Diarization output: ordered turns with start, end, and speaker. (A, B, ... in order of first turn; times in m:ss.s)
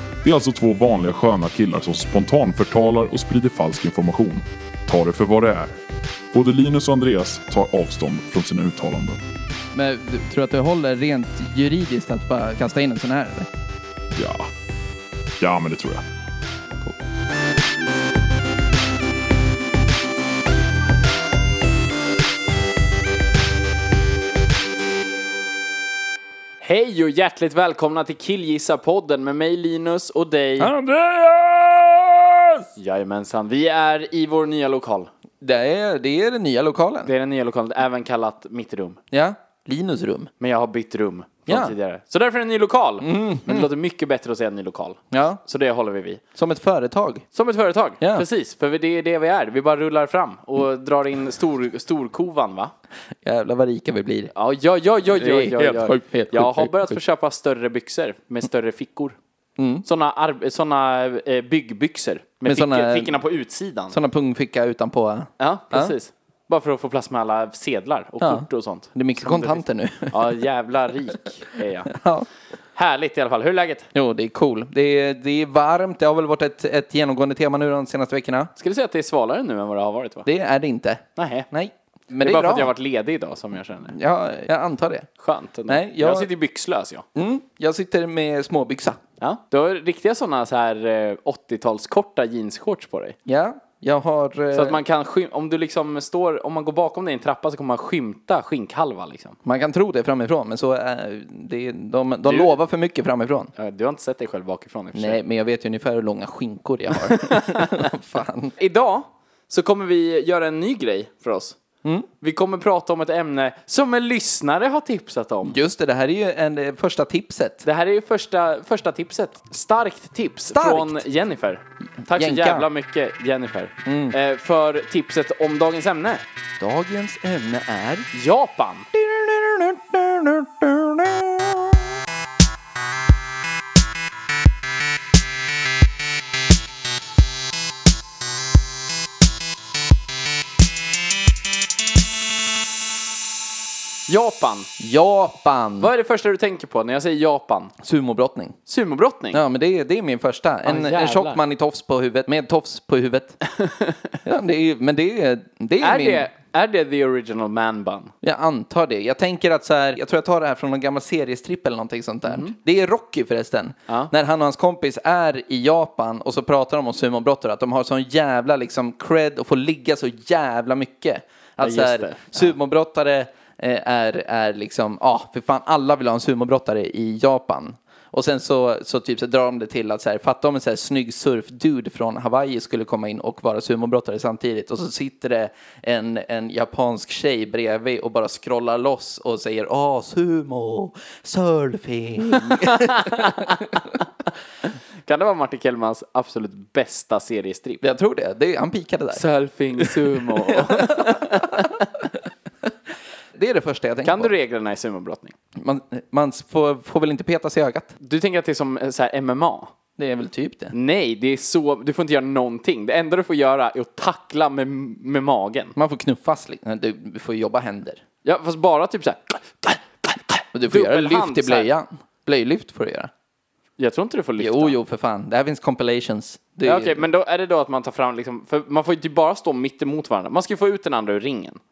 0:00.2-0:05.8 A
0:06.3-0:09.2 A
0:09.7-0:13.5 B
0:14.1-0:14.5 A
0:15.4-0:16.0 A
0:26.6-0:30.7 C
0:30.6-0:32.7 B
0:32.8-0:35.1 C
0:35.4-0:37.1 B
0:37.0-0:39.0 C
0:39.1-0:40.3 B
0:40.4-0:46.2 C
0:41.5-0:41.7 B
0:43.0-0:43.7 B
0:45.1-0:45.4 B
0:46.3-0:47.2 B
0:47.3-0:52.7 C
0:48.0-0:48.2 B
0:53.2-0:54.3 B
0:54.3-0:59.2 C
0:55.1-0:57.0 B
0:59.6-0:59.8 B
0:59.8-1:04.0 C
1:02.4-1:03.1 B
1:03.9-1:05.9 B
1:05.4-1:11.9 C
1:08.2-1:10.4 B
1:11.9-1:12.3 B
1:12.7-1:13.9 C
1:13.9-1:18.5 B
1:18.6-1:20.3 C
1:20.2-1:22.7 B
1:21.2-1:21.5 C
1:22.2-1:23.9 C
1:23.9-1:25.1 B
1:25.2-1:27.0 C
1:25.7-1:26.3 B
1:27.1-1:29.0 B
1:29.2-1:33.2 C
1:33.2-1:34.8 B
1:34.5-1:39.4 C
1:39.4-1:43.5 B
1:42.2-1:42.5 C
1:43.5-1:45.2 C
1:44.9-1:48.5 B
1:46.9-1:47.9 C
1:48.6-1:51.6 C
1:52.2-1:55.6 C
1:55.4-1:57.6 B
1:57.6-2:06.2 C
2:00.5-2:01.0 B
2:02.0-2:02.7 B
2:03.8-2:04.2 B
2:06.6-2:08.1 B
2:08.1-2:08.9 C
2:08.9-2:11.8 B
2:24.1-2:24.7 C
2:24.8-2:25.9 B
2:25.8-2:27.7 C
2:27.8-2:28.6 B
2:28.7-2:29.4 C
2:29.3-2:33.4 B
2:30.6-2:31.4 C
2:33.4-2:34.1 C
2:34.2-2:36.2 B
2:35.8-2:38.1 C
2:38.2-3:13.8 B
2:42.2-2:42.5 C
2:51.6-2:52.5 C
3:12.3-3:14.1 C
3:15.0-3:17.8 C
3:17.8-3:19.2 B
3:19.1-3:21.9 C
3:19.8-3:21.8 B
3:23.3-3:24.3 B
3:24.0-3:25.3 C
3:25.6-3:27.9 B
3:28.0-3:29.7 C
3:30.0-3:30.7 B
3:30.7-3:35.7 C
3:35.8-3:38.0 B
3:38.2-3:41.7 C
3:40.5-3:43.1 B
3:43.8-3:44.8 C
3:44.4-3:47.0 B
3:46.6-3:51.6 C